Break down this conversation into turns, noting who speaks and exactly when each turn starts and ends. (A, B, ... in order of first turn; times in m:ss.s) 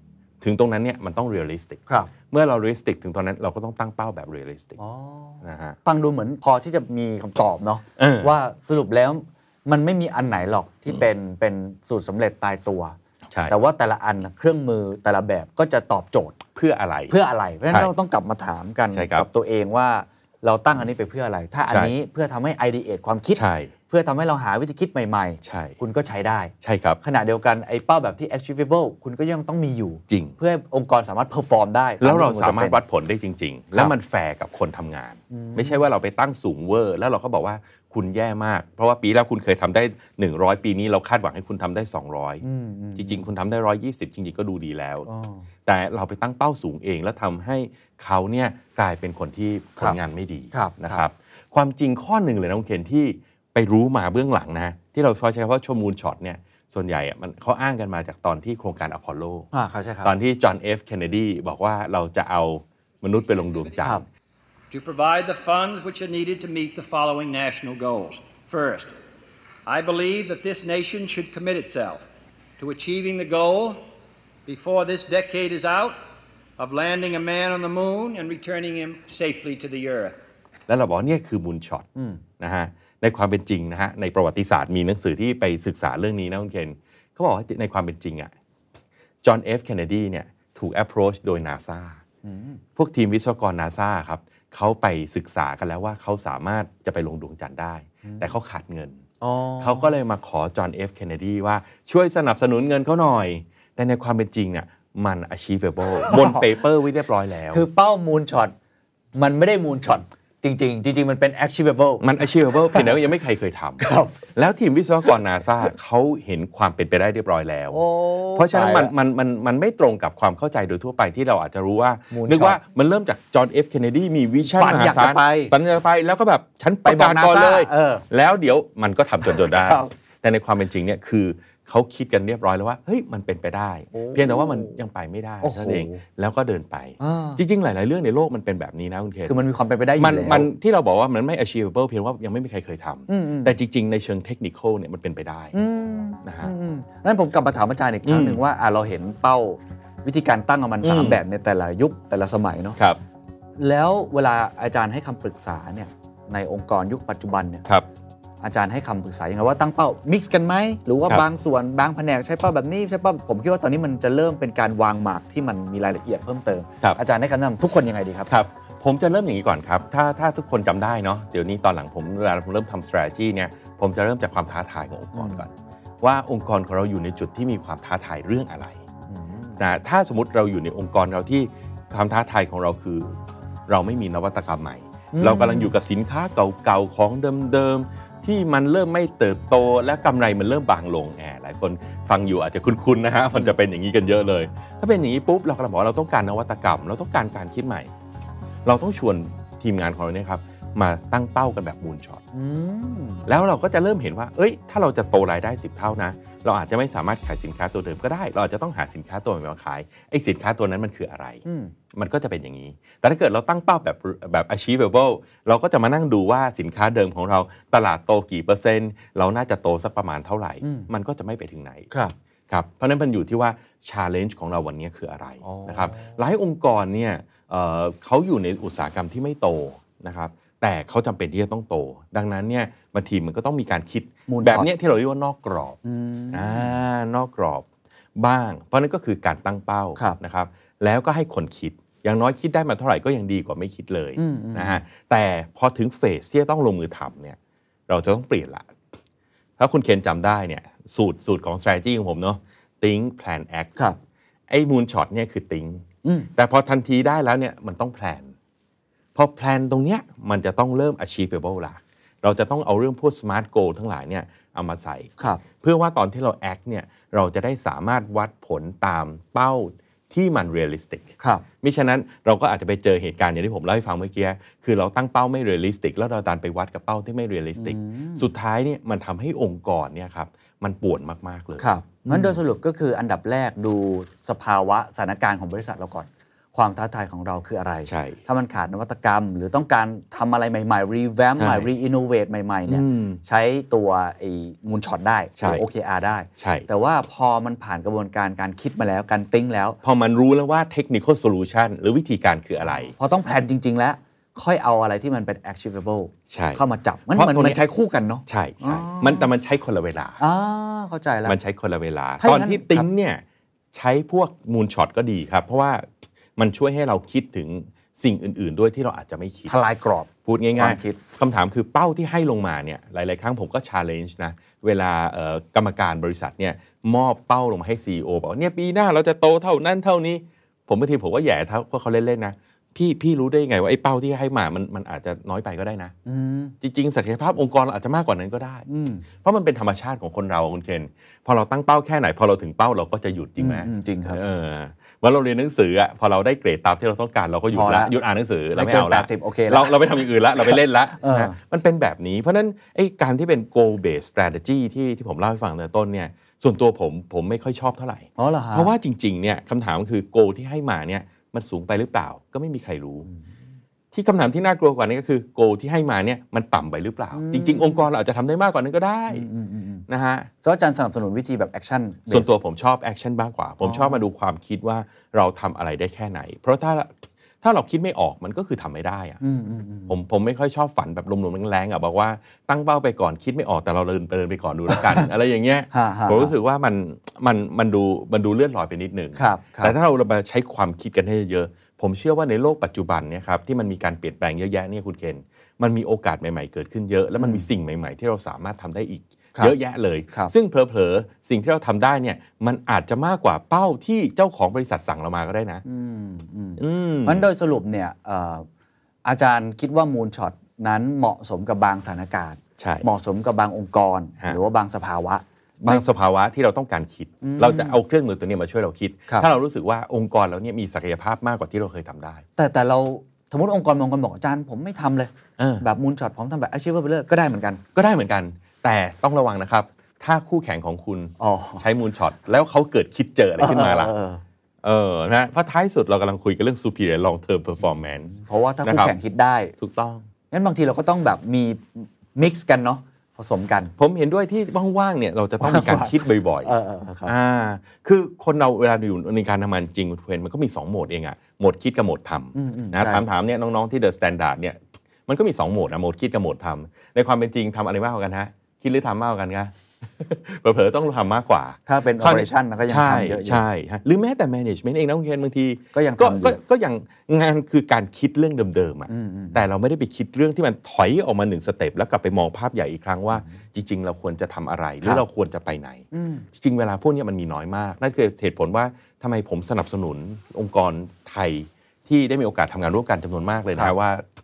0:00.4-0:04.8 A
0:01.9-0:02.1 B
0:04.8-0:13.0 B
0:05.4-0:05.8 A
0:08.0-0:08.3 A
0:13.3-0:13.6 A
0:13.5-0:16.4 B
0:16.6-0:17.1 A
0:17.1-0:32.8 B
0:18.9-0:19.3 A
0:21.6-0:21.9 A
0:23.4-0:23.7 A
0:25.4-0:25.8 A
0:26.6-0:27.0 A
0:30.1-0:30.4 A
0:32.0-0:42.4 A
0:35.3-0:35.8 B
0:42.4-0:43.3 B
0:43.0-0:45.1 A
0:45.1-0:45.4 B
0:45.6-0:59.5 A
0:50.5-0:51.0 B
0:59.5-1:00.1 B
1:00.0-1:04.0 A
1:04.7-1:08.9 C
1:09.6-1:12.1 C
1:12.6-1:13.8 C
1:14.4-1:16.0 C
1:16.6-1:20.2 C
1:20.7-1:21.9 A
1:21.9-1:22.2 B
1:22.4-1:28.3 A
1:29.2-1:32.0 A
1:32.2-1:32.6 B
1:32.8-1:39.0 A
1:38.0-1:38.3 B
1:39.2-1:39.9 B
1:39.6-1:47.6 A
1:46.0-1:46.4 B
1:47.5-1:48.5 B
1:49.1-1:52.1 B
1:52.0-1:57.8 A
1:53.8-1:54.2 B
1:57.7-1:58.9 B
1:58.4-2:19.4 A
2:02.1-2:02.6 B
2:04.4-2:05.6 B
2:06.8-2:08.1 B
2:09.2-2:09.9 B
2:13.9-2:14.7 B
2:15.4-2:16.0 B
2:17.0-2:17.4 B
2:19.2-2:20.5 B
2:20.0-2:25.6 A
2:23.1-2:23.6 B
2:25.5-2:32.8 B
2:26.2-2:26.5 A
2:28.1-2:28.4 A
2:30.8-2:31.2 A
2:33.6-2:37.6 B
2:38.4-2:48.3 B
2:48.3-2:58.8 A
2:55.1-2:55.4 B
2:59.1-2:59.6 B
2:59.6-3:03.2 A
3:03.7-3:17.9 A
3:05.1-3:05.7 B
3:18.6-3:22.2 A
3:22.3-3:23.3 B
3:23.3-3:31.4 A
3:31.4-3:31.7 B
3:31.9-3:41.9 A
3:40.6-3:40.9 B
3:42.5-3:55.8 A
3:45.4-3:46.2 B
3:54.3-3:54.7 B
3:55.8-3:56.8 B
3:56.3-4:07.4 A
4:04.2-4:04.8 B
4:07.9-4:08.7 A
4:09.6-4:13.8 A
4:14.5-4:18.3 A
4:16.0-4:16.3 B
4:19.1-4:42.4 A
4:31.2-4:31.4 B
4:37.6-4:38.3 B
4:41.6-4:59.8 B
4:47.9-4:48.2 A
4:51.4-4:51.7 A
4:52.7-4:53.2 A
4:55.4-4:55.6 A
4:56.4-4:56.7 A
4:59.8-5:02.9 A
5:02.6-5:09.3 B
5:06.3-5:06.6 A
5:07.1-5:07.6 A
5:08.2-5:10.2 A
5:10.2-5:11.4 B
5:11.2-5:19.5 A
5:12.2-5:12.9 B
5:19.5-5:21.0 B
5:20.2-5:35.9 A
5:36.1-5:36.6 B
5:36.6-5:38.6 A
5:38.7-5:39.1 B
5:39.2-6:03.1 A
5:43.4-5:44.2 B
5:47.5-5:47.9 B
5:48.5-5:49.9 B
5:50.4-5:51.4 B
5:58.2-5:58.7 B
6:03.1-6:03.3 B
6:03.9-6:09.3 A
6:07.1-6:07.9 B
6:09.1-6:09.8 B
6:09.9-6:10.3 A
6:10.4-6:12.3 B
6:12.1-6:19.2 A
6:13.6-6:14.0 B
6:19.2-6:20.0 B
6:19.9-6:45.6 A
6:24.7-6:25.1 B
6:25.7-6:26.3 B
6:29.2-6:29.8 B
6:37.2-6:37.4 B
6:45.6-6:48.5 B
6:46.6-6:47.3 A
6:49.0-6:55.9 B
6:52.6-6:52.9 A
6:55.6-7:02.2 A
6:57.2-6:57.8 B
7:02.4-7:07.6 B
7:05.4-7:05.6 A
7:07.7-7:13.9 A
7:11.2-7:11.6 B
7:13.4-7:14.2 B
7:14.6-7:18.9 A
7:18.1-7:19.6 B
7:19.6-7:20.1 A
7:20.3-7:23.7 B
7:23.8-7:26.5 A
7:25.4-7:27.1 B
7:27.1-8:04.1 A
7:32.3-7:33.1 B
7:41.7-7:43.4 B
7:45.7-7:46.4 B
7:48.9-7:49.4 B
7:55.9-7:56.3 B